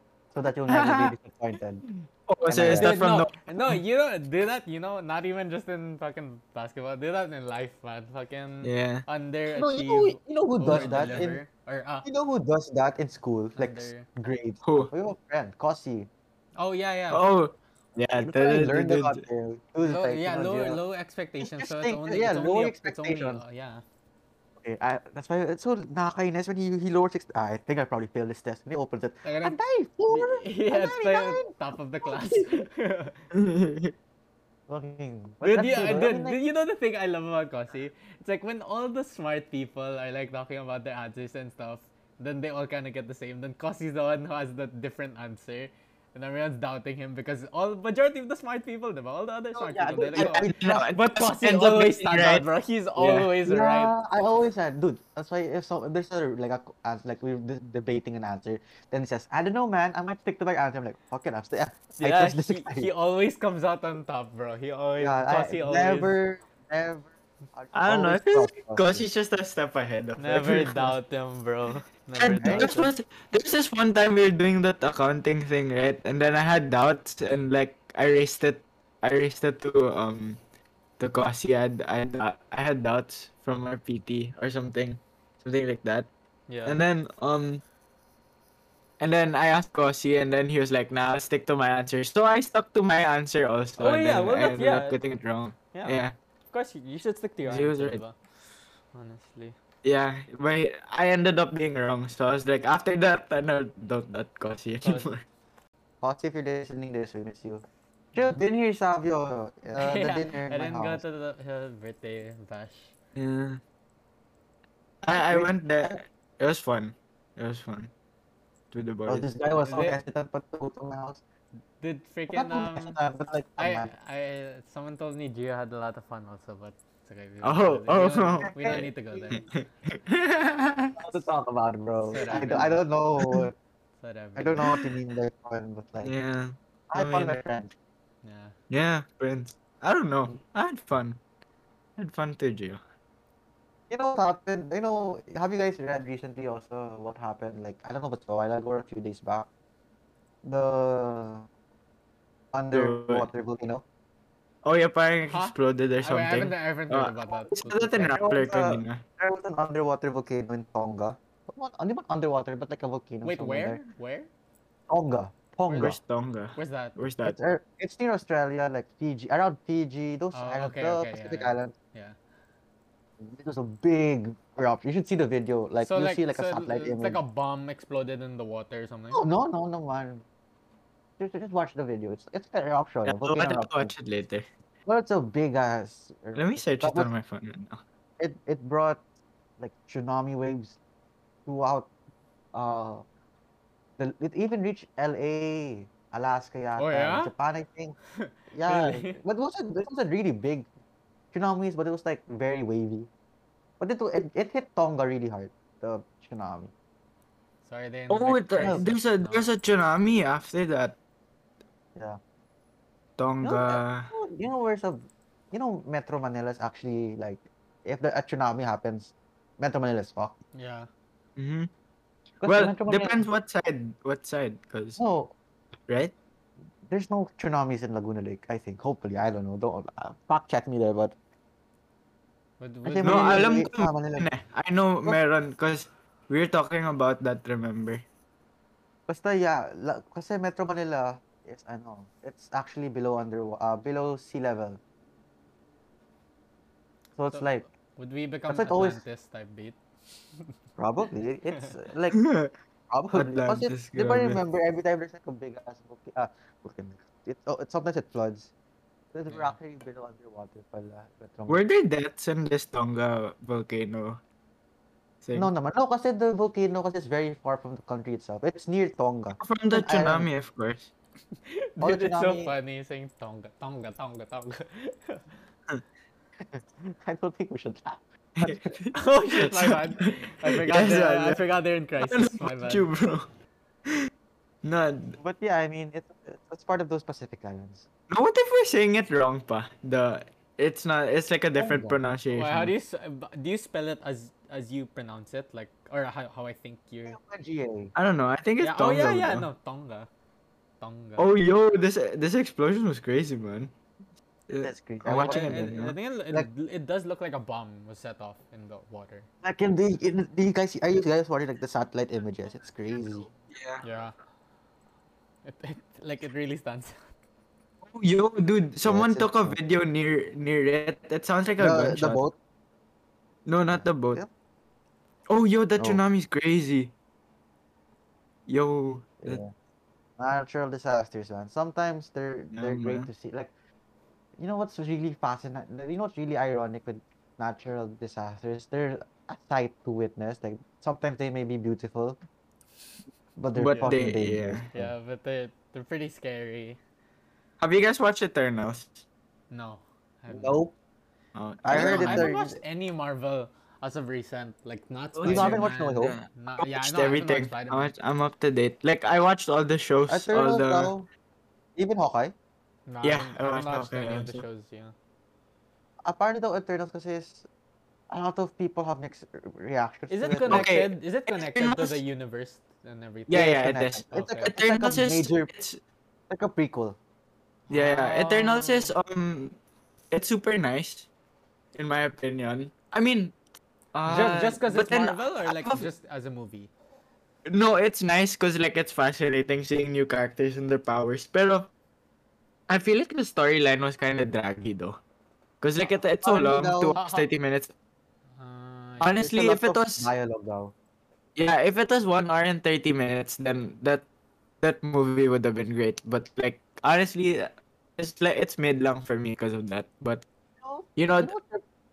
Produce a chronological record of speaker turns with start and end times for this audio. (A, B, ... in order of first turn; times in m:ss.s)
0:00.3-0:01.9 A
0:00.7-0:01.1 B
0:02.0-0:03.8 B
0:02.4-0:03.0 A
0:02.7-0:12.1 C
0:08.6-0:09.0 B
0:09.5-0:11.4 A
0:10.7-0:11.3 B
0:12.0-0:16.1 A
0:13.6-0:14.1 C
0:14.6-0:14.9 B
0:16.6-0:17.2 C
0:17.1-0:19.2 B
0:18.2-0:20.8 A
0:19.8-0:23.8 C
0:21.4-0:23.4 A
0:24.6-0:31.5 A
0:29.2-0:29.6 C
0:30.1-0:33.2 C
0:32.0-0:32.4 A
0:33.3-0:33.9 B
0:34.7-0:36.4 A
0:35.4-0:53.9 C
0:49.5-0:50.9 A
0:50.1-0:52.4 B
0:53.0-0:53.3 B
0:53.4-1:02.9 A
1:01.9-1:06.1 C
1:05.0-1:09.1 A
1:07.7-1:11.0 B
1:10.2-1:12.9 C
1:12.2-1:20.4 B
1:12.4-1:12.7 A
1:21.0-1:26.1 B
1:26.5-1:26.8 C
1:26.6-1:27.6 B
1:29.0-1:36.1 B
1:33.8-1:35.0 C
1:35.7-1:36.0 C
1:36.5-1:38.2 C
1:37.4-1:38.0 B
1:38.9-1:39.6 C
1:39.8-1:45.2 B
1:44.8-1:45.1 C
1:46.0-1:51.0 A
1:49.8-1:52.9 C
1:53.1-1:53.6 B
1:55.0-1:57.9 B
1:55.1-1:56.0 A
1:58.7-1:59.2 B
1:59.1-2:01.2 A
1:59.6-2:00.0 C
2:01.8-2:03.0 C
2:02.3-2:03.9 A
2:03.6-2:09.4 C
2:07.4-2:11.0 B
2:08.4-2:09.4 A
2:11.0-2:13.6 A
2:12.1-2:12.8 C
2:13.2-2:13.4 B
2:14.0-2:14.6 C
2:14.4-2:16.1 A
2:14.6-2:14.9 B
2:16.0-2:17.4 B
2:16.9-2:17.7 A
2:18.2-2:18.6 C
2:18.7-2:21.2 B
2:22.0-2:22.8 B
2:23.9-2:29.5 A
2:30.4-2:31.5 A
2:32.5-2:33.8 A
2:32.7-2:33.3 B
2:34.6-2:39.0 B
2:35.3-2:38.2 C
2:38.1-2:43.8 A
2:43.2-2:44.3 C
2:44.9-2:46.0 A
2:45.7-2:46.0 C
2:45.8-2:47.4 B
2:46.6-2:47.0 C
2:47.2-2:51.7 A
2:50.3-2:52.2 C
2:53.2-2:57.2 A
2:55.8-2:59.2 C
2:59.1-3:00.2 A
3:01.2-3:03.9 A
3:03.0-3:04.4 B
3:04.9-3:07.1 A
3:06.4-3:07.8 B
3:08.2-3:09.0 A
3:09.6-3:10.8 A
3:11.4-3:11.9 A
3:12.5-3:13.0 A
3:14.0-3:18.0 A
3:16.8-3:17.3 C
3:18.1-3:19.2 C
3:18.5-3:20.7 A
3:21.3-3:23.1 A
3:23.8-3:26.7 A
3:27.6-3:29.5 C
3:28.1-3:31.0 B
3:28.6-3:28.9 A
3:31.9-3:32.2 A
3:33.2-3:34.1 B
3:33.4-3:40.4 A
3:40.6-3:40.9 C
3:41.4-3:41.7 B
3:42.4-3:43.3 A
3:42.4-3:45.0 B
3:45.0-3:45.3 A
3:45.9-3:46.1 B
3:46.9-3:51.2 A
3:52.6-3:53.5 C
3:52.8-3:54.3 A
3:53.0-3:58.0 B
3:59.1-4:04.8 A
4:07.2-4:07.6 A
4:07.3-4:09.8 C
4:08.5-4:09.0 A
4:10.8-4:12.2 A
4:12.1-4:12.5 B
4:12.9-4:18.5 A
4:13.1-4:14.4 B
4:19.1-4:21.6 A
4:19.3-4:19.6 C
4:21.5-4:24.2 B
4:25.2-4:25.5 B
4:25.4-4:30.3 A
4:29.4-4:30.9 B
4:31.4-4:35.2 C
4:31.8-4:32.5 A
4:36.4-4:38.7 A
4:38.4-4:41.4 B
4:38.9-4:42.9 C
4:42.0-4:43.3 B
4:44.6-4:45.2 B
4:45.1-4:47.9 A
4:48.1-4:52.7 B
4:51.6-4:52.0 A
4:52.3-4:57.2 C
4:57.1-4:57.9 A
4:57.9-4:59.5 B
4:58.6-5:00.1 C
5:00.8-5:01.3 C
5:01.2-5:03.7 B
5:04.5-5:06.0 B
5:04.6-5:05.8 A
5:05.1-5:09.3 C
5:09.4-5:13.3 A
5:13.5-5:13.8 B
5:13.8-5:14.1 C
5:15.4-5:17.1 C
5:17.9-5:22.2 B
5:18.8-5:19.6 A
5:21.6-5:22.4 A
5:23.4-5:24.2 B
5:23.7-5:24.3 A
5:25.3-5:26.9 B
5:28.5-5:29.4 B
5:29.2-5:29.5 A
5:30.2-5:33.5 A
5:32.5-5:33.1 B
5:34.4-5:42.2 A
5:43.4-5:44.9 A
5:43.6-5:44.7 B
5:44.7-5:46.8 C
5:47.6-5:49.0 B
5:49.5-5:50.6 C
5:50.3-5:50.7 A
5:51.3-5:52.3 B
5:51.6-5:52.6 A
5:51.7-5:57.9 C
5:55.2-6:00.9 B
5:55.2-5:56.2 A
6:00.1-6:01.1 A
6:01.8-6:02.4 A
6:02.9-6:04.9 C
6:03.0-6:04.4 B
6:06.0-6:07.4 A
6:08.1-6:10.7 A
6:10.1-6:13.6 C
6:10.5-6:12.0 B
6:13.3-6:15.8 B
6:13.3-6:15.5 A
6:14.1-6:14.5 C
6:16.3-6:17.0 A
6:17.7-6:18.9 C
6:17.7-6:19.6 B
6:20.1-6:21.1 B
6:21.7-6:23.4 B
6:23.9-6:25.9 B
6:24.1-6:26.7 C
6:27.4-6:31.7 B
6:32.7-6:35.0 B
6:35.6-6:37.7 B
6:36.2-6:37.0 A
6:36.9-6:37.3 C
6:38.4-6:39.2 C
6:39.0-6:40.1 B
6:39.2-6:40.7 A
6:41.4-6:44.0 B
6:44.6-6:50.3 B
6:50.6-6:51.6 A
6:51.0-6:51.3 B